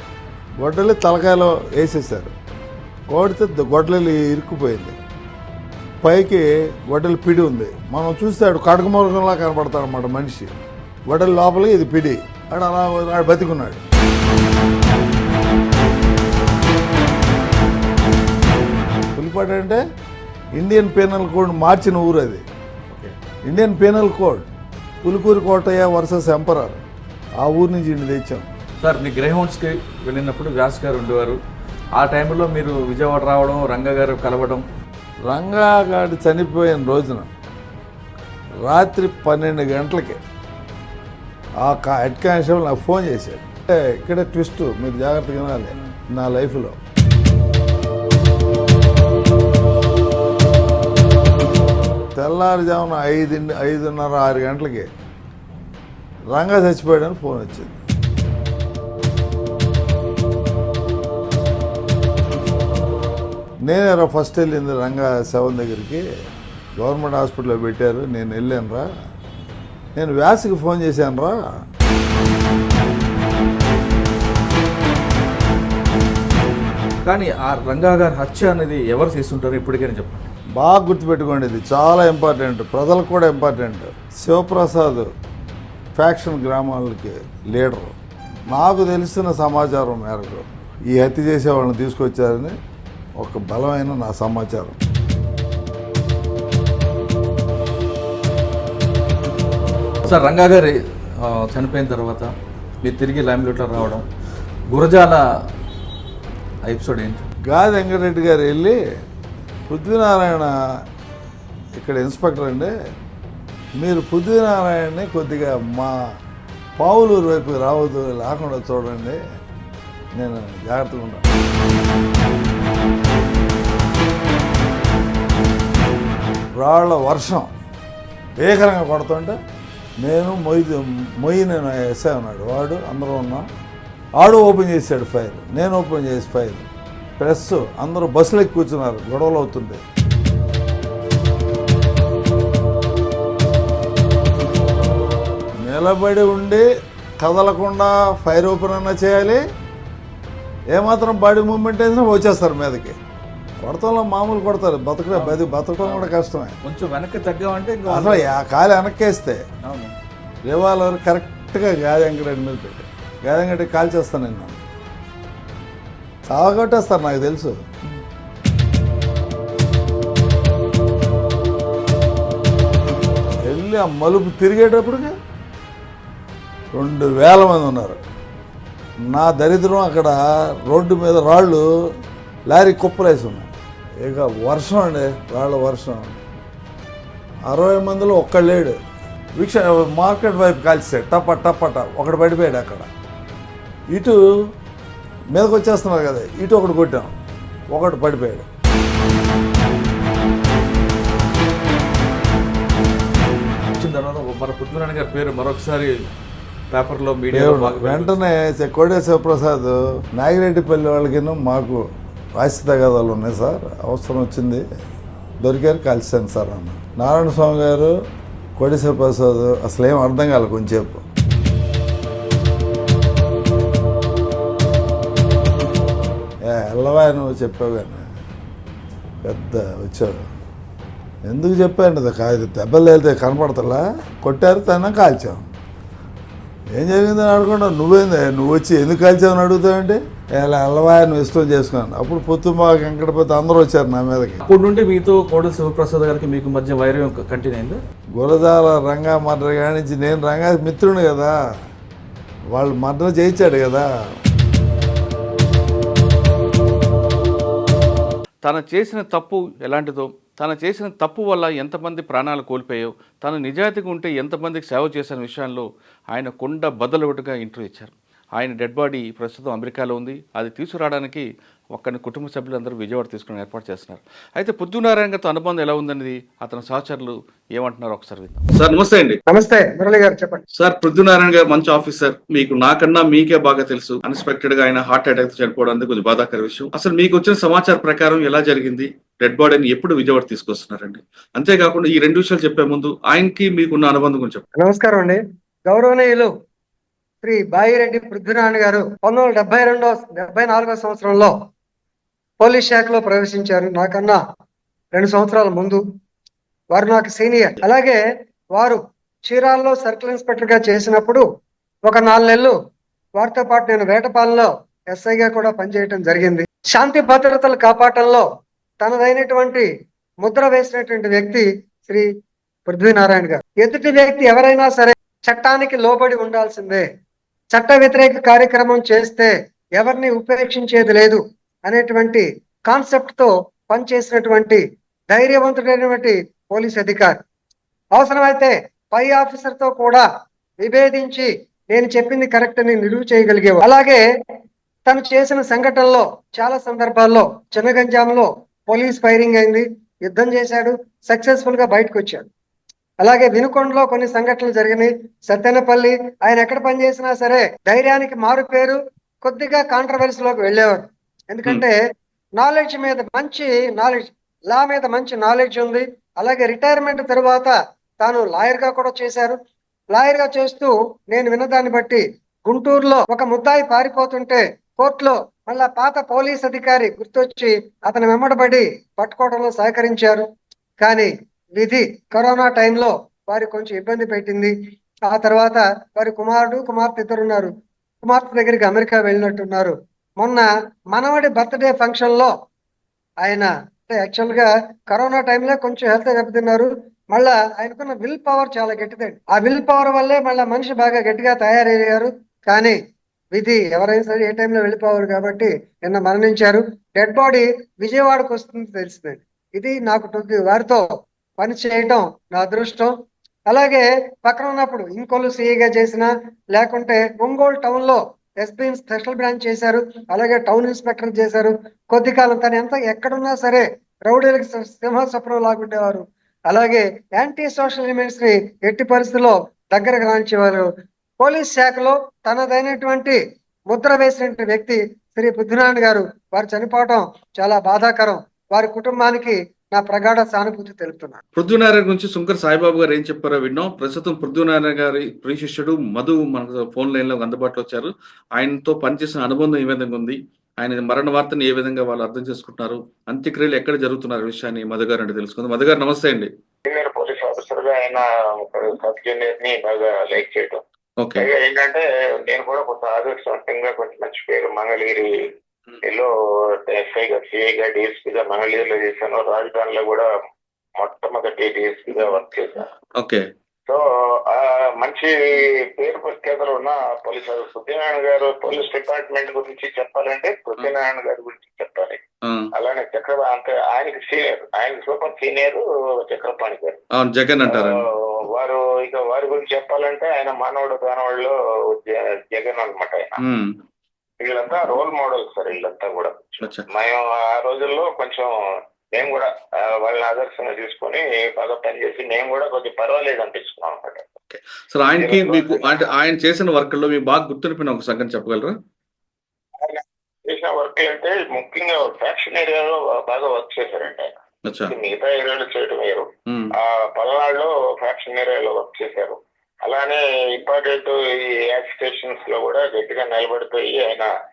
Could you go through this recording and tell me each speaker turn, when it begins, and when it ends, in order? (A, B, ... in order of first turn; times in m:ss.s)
0:00.6-0:02.3 A
0:03.1-0:05.0 A
0:06.0-0:10.6 A
0:11.1-0:13.8 A
0:19.2-0:19.8 A
0:20.6-0:22.4 A
0:23.5-0:24.5 A
0:25.0-0:26.8 A
0:27.4-0:28.5 A
0:28.8-0:31.4 B
0:32.0-0:34.6 B
0:35.3-0:37.3 A
0:38.6-0:40.2 A
0:41.6-0:46.8 A
0:52.2-0:54.9 A
0:56.3-0:57.8 A
1:03.6-1:06.0 A
1:06.8-1:08.9 A
1:10.0-1:11.4 A
1:17.0-1:20.3 B
1:20.6-1:25.1 A
1:26.0-1:28.0 A
1:28.5-1:32.6 A
1:33.2-1:34.8 A
1:40.0-1:42.3 B
1:42.8-1:44.1 B
1:44.7-1:45.2 B
1:46.6-1:47.3 B
1:47.4-1:48.8 A
1:49.7-1:50.5 A
1:51.8-1:52.7 A
1:53.8-1:55.9 A
1:56.8-1:59.2 A
2:00.2-2:01.2 A
2:06.6-2:07.5 A
2:08.4-2:09.4 A
2:10.0-2:13.5 A
2:14.2-2:16.7 A
2:17.2-2:19.8 A
2:25.6-2:26.6 A
2:27.2-2:29.4 A
2:30.7-2:33.0 A
2:33.6-2:36.6 A
2:35.1-2:36.1 B
2:36.6-2:38.3 B
2:37.9-2:39.4 A
2:39.6-2:39.9 B
2:40.5-2:44.6 A
2:46.3-2:47.6 A
2:53.5-2:55.1 A
2:56.7-2:58.0 A
2:59.1-3:01.7 A
3:02.5-3:03.5 A
3:04.0-3:06.2 A
3:07.5-3:08.8 A
3:09.4-3:12.9 A
3:13.9-3:14.2 A
3:15.3-3:17.1 A
3:17.7-3:18.5 A
3:23.8-3:26.1 B
3:26.7-3:28.2 B
3:27.3-3:31.8 A
3:32.4-3:34.6 A
3:35.4-3:37.9 A
3:38.6-3:41.0 A
3:46.4-3:48.1 A
3:49.2-3:50.2 A
3:51.2-3:55.4 A
3:56.7-4:04.4 A
4:04.4-4:07.8 B
4:08.2-4:11.4 A
4:12.5-4:13.9 A
4:18.4-4:39.2 B
4:39.3-4:40.4 C
4:40.6-4:54.4 B
4:54.6-4:56.3 C
4:57.2-5:01.3 C
5:02.4-5:04.2 C
5:04.9-5:05.8 C
5:06.7-5:08.0 C
5:08.6-5:11.2 C
5:11.9-5:12.6 C
5:13.2-5:18.3 C
5:18.8-5:19.7 C
5:20.2-5:22.1 C
5:22.7-5:26.8 C
5:27.5-5:37.2 C
5:37.9-5:40.1 C
5:40.6-5:44.0 C
5:44.9-5:52.3 C
5:53.0-6:01.8 C
6:02.4-6:09.4 C
6:09.9-6:20.2 C
6:20.8-6:24.5 C
6:25.1-6:32.3 C
6:33.2-6:42.8 C
6:43.3-6:50.9 C
6:51.4-6:52.9 C
6:53.5-7:10.7 C
7:11.2-7:21.2 C
7:21.4-7:36.3 B
7:36.7-7:40.6 D
7:41.0-7:41.3 B
7:41.2-7:45.1 D
7:45.8-7:50.1 D
7:50.8-7:52.7 D
7:53.0-7:53.2 B
7:53.7-8:02.0 D
8:02.2-8:02.5 B
8:02.6-8:06.8 D
8:07.0-8:07.8 B
8:07.5-8:13.2 D
8:13.2-8:13.5 B
8:14.2-8:18.3 D
8:16.4-8:16.7 B
8:18.9-8:24.1 D
8:24.3-8:28.6 B
8:25.0-8:25.9 D
8:29.6-8:34.1 D
8:34.5-8:34.7 B
8:34.7-8:36.1 D
8:36.6-8:44.1 D